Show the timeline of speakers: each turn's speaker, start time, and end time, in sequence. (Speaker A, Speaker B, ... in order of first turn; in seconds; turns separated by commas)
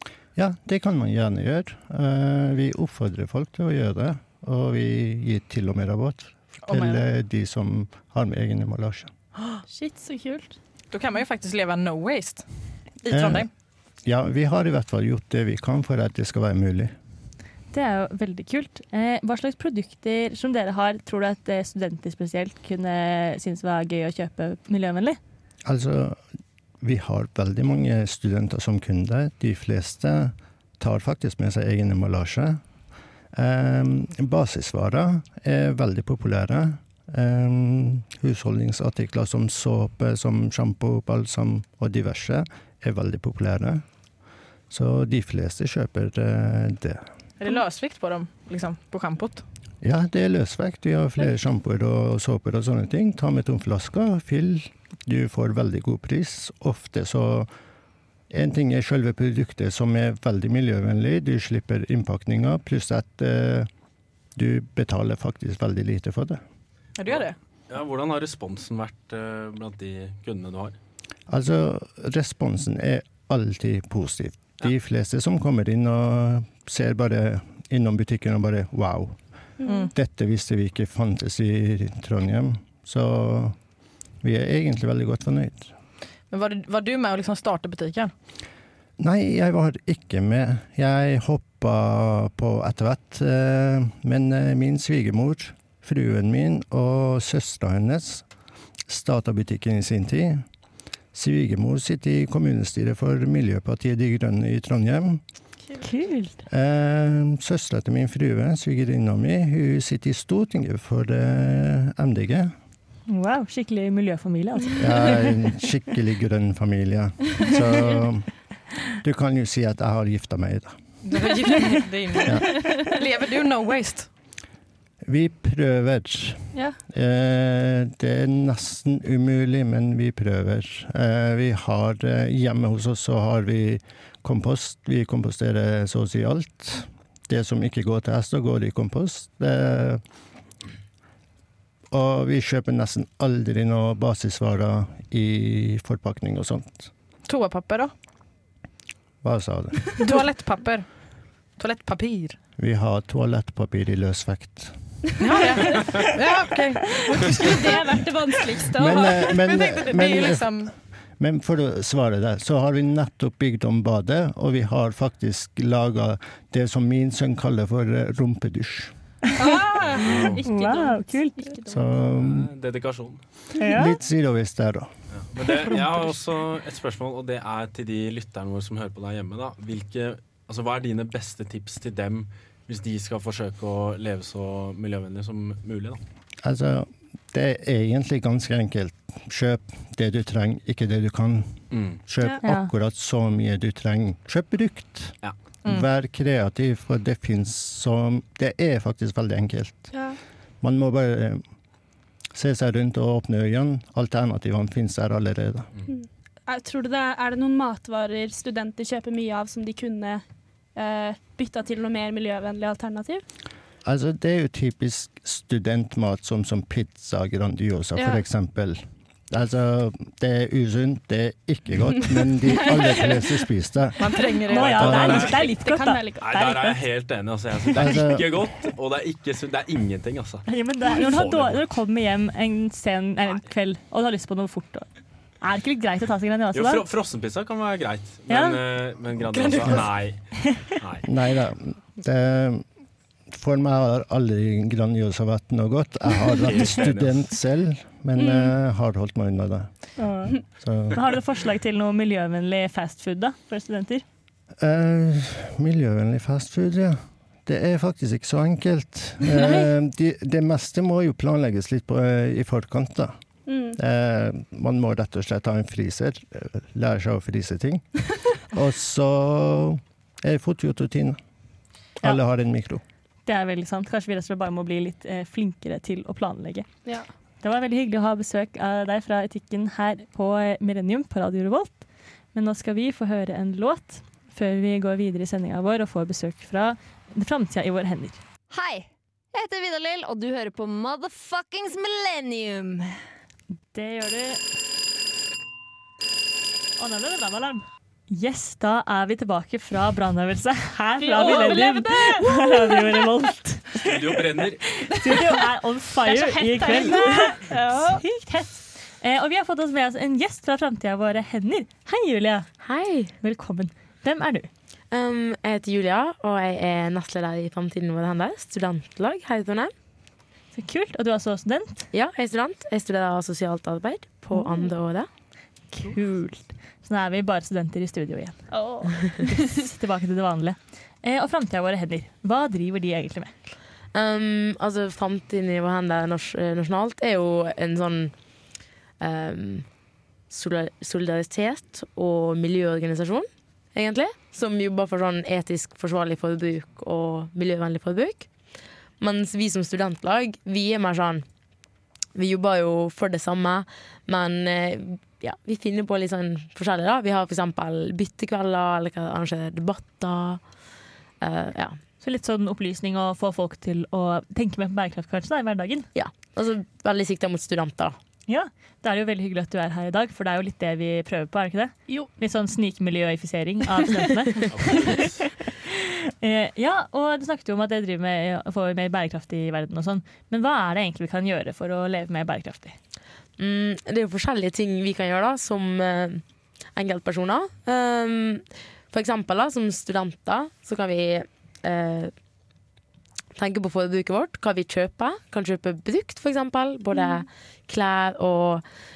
Speaker A: 0.4-9.1, Speaker B: 6.7-7.0, Speaker C: 9.7-10.6, Speaker B: 10.9-12.4, Speaker B: 13.0-13.5, Speaker A: 13.1-13.5, Speaker A: 14.0-16.9, Speaker D: 17.7-25.2, Speaker A: 25.6-26.2, Speaker A: 26.8-32.6, Speaker A: 33.3-43.8, Speaker A: 44.7-47.1, Speaker B: 47.4-49.4, Speaker A: 49.8-57.5, Speaker A: 58.3-63.7, Speaker A: 64.3-66.4, Speaker B: 67.0-67.4, Speaker E: 67.7-70.8, Speaker A: 71.3-79.2, Speaker C: 79.6-79.9, Speaker B: 79.7-79.9, Speaker A: 79.9-83.6, Speaker A: 84.2-85.7, Speaker B: 86.3-88.1, Speaker A: 89.0-98.2, Speaker A: 98.9-100.4, Speaker A: 101.1-105.2, Speaker D: 105.8-106.4, Speaker A: 106.5-112.5, Speaker D: 113.1-115.3, Speaker A: 114.8-118.3, Speaker A: 119.0-120.8, Speaker B: 121.0-124.1, Speaker A: 125.0-140.0, Speaker A: 141.9-146.9, Speaker B: 147.3-147.9, Speaker A: 149.2-150.0, Speaker B: 150.0-150.9, Speaker B: 151.6-152.4, Speaker A: 152.6-154.7, Speaker B: 155.2-158.0, Speaker C: 155.3-155.9, Speaker C: 157.3-159.3, Speaker A: 158.8-160.6, Speaker B: 159.3-160.7, Speaker A: 161.2-168.9, Speaker B: 169.4-169.9, Speaker C: 169.4-172.0, Speaker E: 169.9-170.4, Speaker D: 170.4-171.5, Speaker A: 171.7-172.5, Speaker E: 172.2-173.2, Speaker D: 173.6-173.9, Speaker A: 173.7-174.9, Speaker E: 175.1-186.0, Speaker A: 186.4-199.9, Speaker E: 191.7-192.0, Speaker D: 192.4-192.7, Speaker C: 199.9-200.2, Speaker A: 200.6-201.4, Speaker A: 202.3-205.7, Speaker C: 205.9-213.2, Speaker A: 213.8-224.1, Speaker C: 218.0-218.2, Speaker C: 222.5-223.3, Speaker B: 224.0-225.3, Speaker D: 224.5-226.8, Speaker A: 224.8-225.3, Speaker E: 224.8-225.4, Speaker C: 225.2-226.6, Speaker E: 226.2-230.5, Speaker A: 227.7-228.5, Speaker D: 230.5-234.9, Speaker E: 231.0-231.6, Speaker D: 235.4-236.8, Speaker E: 236.5-241.1, Speaker D: 238.3-238.6, Speaker B: 239.3-239.9, Speaker A: 241.0-242.6, Speaker A: 243.3-249.9, Speaker E: 246.4-247.2, Speaker C: 248.2-248.5, Speaker D: 250.0-250.4, Speaker A: 250.6-251.0, Speaker D: 250.9-254.0, Speaker A: 254.6-263.2, Speaker C: 263.5-263.8, Speaker A: 263.8-271.2, Speaker A: 272.0-272.8, Speaker D: 273.3-276.7, Speaker D: 277.4-281.8, Speaker D: 282.3-288.2, Speaker F: 288.5-292.9, Speaker D: 293.7-294.4, Speaker D: 296.8-304.0, Speaker C: 301.0-303.1, Speaker E: 303.8-304.6, Speaker D: 304.9-312.5, Speaker C: 304.9-305.4, Speaker C: 306.0-308.0, Speaker G: 312.6-313.1, Speaker D: 313.2-314.5, Speaker G: 314.9-319.7, Speaker D: 320.5-321.9, Speaker G: 321.9-325.1, Speaker D: 325.7-328.5, Speaker C: 328.5-329.6, Speaker D: 329.2-333.3, Speaker G: 333.9-338.1, Speaker G: 339.0-339.7, Speaker G: 340.3-348.3, Speaker G: 349.0-351.2, Speaker G: 352.1-360.4, Speaker G: 361.2-361.8, Speaker D: 362.0-365.9, Speaker G: 365.9-368.0, Speaker D: 368.3-382.8, Speaker E: 374.5-375.2, Speaker G: 383.4-386.2, Speaker G: 386.8-392.1, Speaker G: 393.4-398.6